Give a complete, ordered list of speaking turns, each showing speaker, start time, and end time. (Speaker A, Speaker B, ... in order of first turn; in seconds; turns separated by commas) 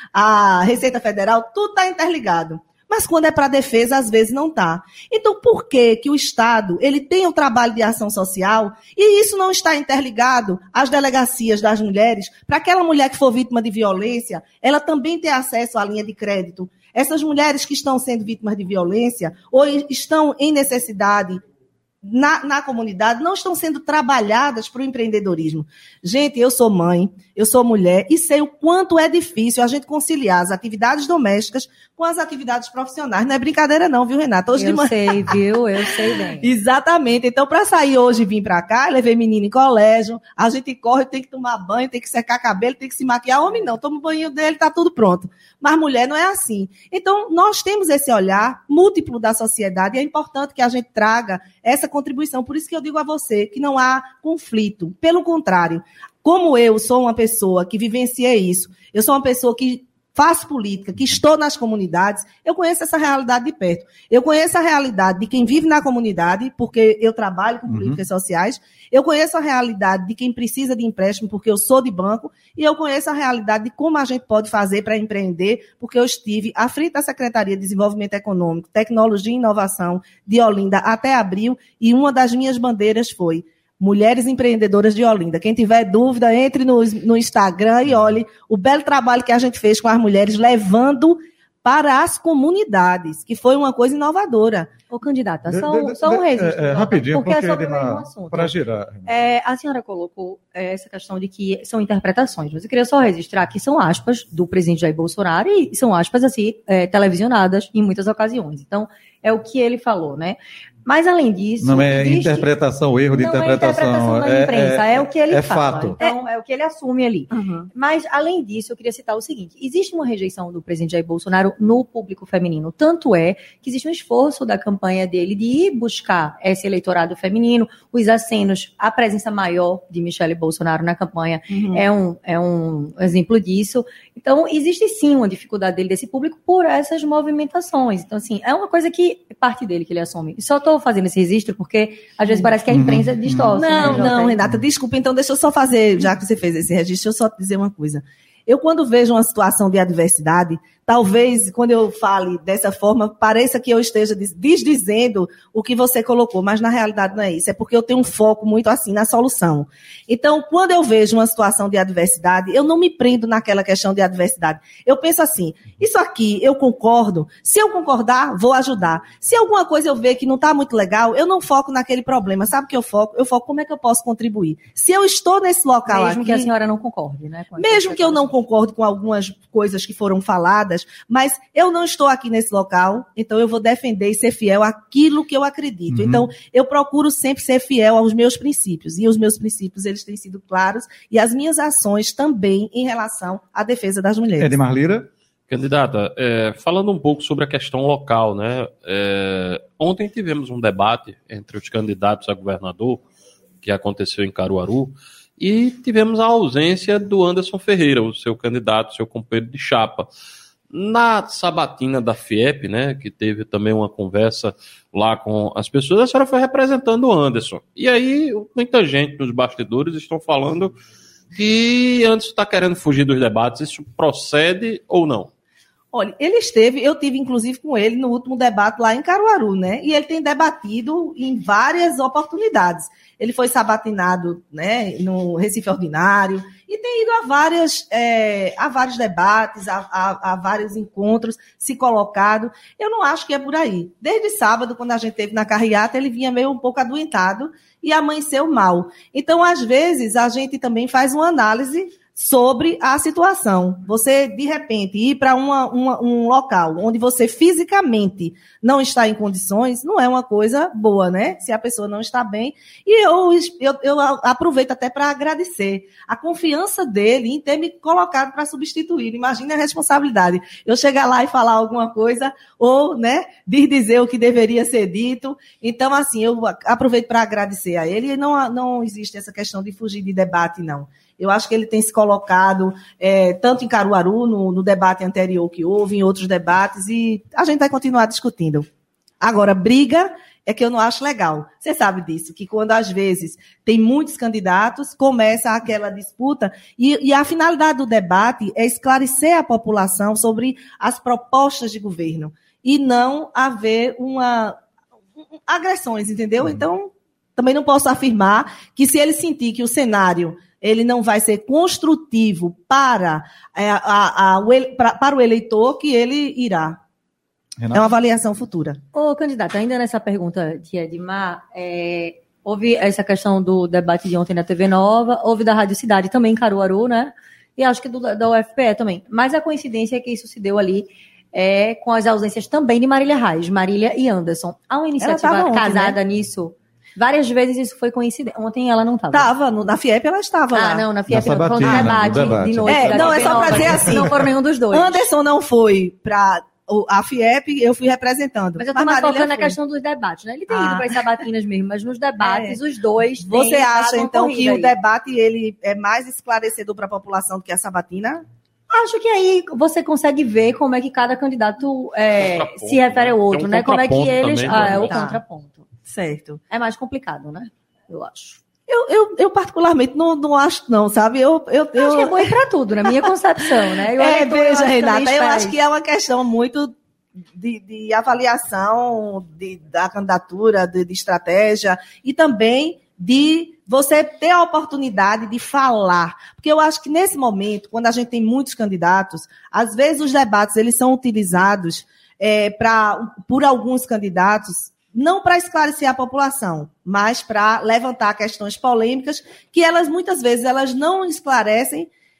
Speaker A: 0.1-21.4, Speaker A: 22.0-35.3, Speaker B: 34.5-36.5, Speaker A: 36.4-94.7, Speaker C: 67.7-68.0, Speaker B: 94.9-98.5, Speaker C: 95.5-99.1, Speaker B: 99.0-112.5, Speaker C: 111.6-116.0, Speaker B: 113.1-144.4, Speaker A: 117.3-117.7, Speaker A: 131.5-131.8, Speaker C: 142.7-144.6, Speaker A: 143.5-176.5, Speaker B: 175.9-178.3, Speaker A: 177.6-194.6, Speaker C: 185.9-186.3, Speaker C: 194.4-195.1, Speaker D: 195.5-203.0, Speaker D: 203.6-210.1, Speaker D: 210.7-220.7, Speaker D: 221.3-225.3, Speaker A: 225.9-288.6, Speaker A: 289.2-304.6, Speaker A: 305.4-316.8, Speaker C: 317.6-317.9, Speaker A: 317.7-318.8, Speaker B: 318.9-339.3, Speaker A: 335.0-336.0, Speaker A: 339.1-340.9, Speaker B: 340.5-345.0, Speaker C: 341.1-344.2, Speaker A: 341.6-344.2, Speaker A: 344.7-349.6, Speaker B: 348.6-354.7, Speaker A: 350.5-350.9, Speaker A: 352.2-352.6, Speaker A: 353.2-358.2, Speaker B: 358.7-365.7, Speaker D: 362.2-364.9, Speaker A: 364.4-365.2, Speaker A: 365.8-366.4, Speaker B: 366.5-368.4, Speaker A: 368.7-372.3, Speaker B: 371.8-375.6, Speaker A: 373.9-376.7, Speaker A: 377.4-401.9